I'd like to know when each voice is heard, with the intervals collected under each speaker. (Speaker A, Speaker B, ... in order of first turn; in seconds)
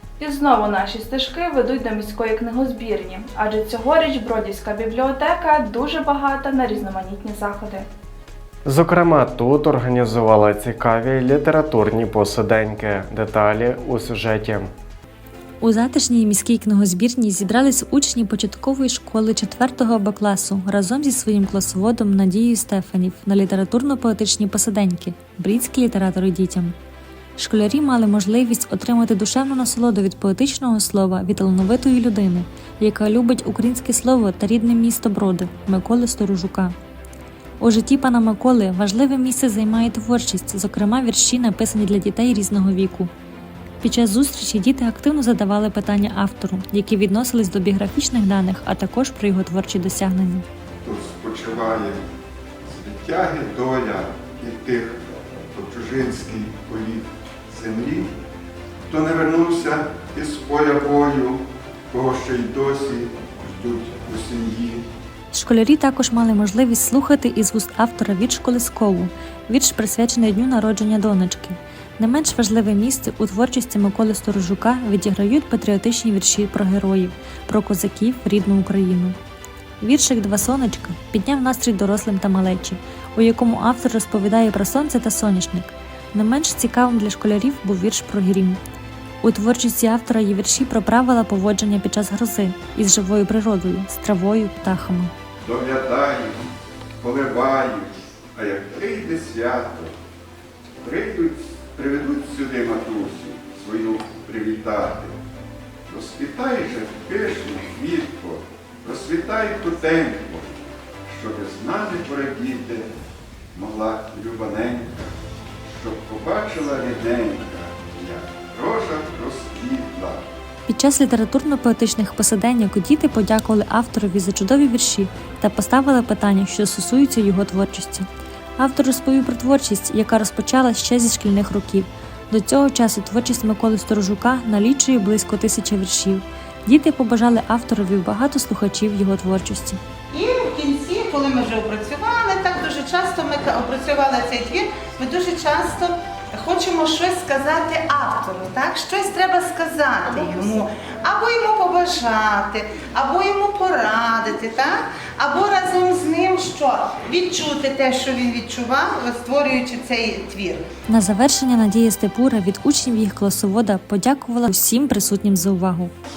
Speaker A: 0.2-7.8
Speaker B: 8.6-14.7
Speaker C: 15.6-26.7, 27.4-36.7, 37.6-43.1, 43.8-50.5, 65.3-79.2, 79.8-88.6, 89.2-95.1, 120.7-128.1, 128.6-139.8, 160.9-165.9
Speaker D: 50.8-52.0, 52.6-58.1, 58.9-64.8, 95.4-96.5, 97.0-99.9, 100.8-105.1, 105.9-112.9, 113.5-120.2
Speaker E: 140.1-160.7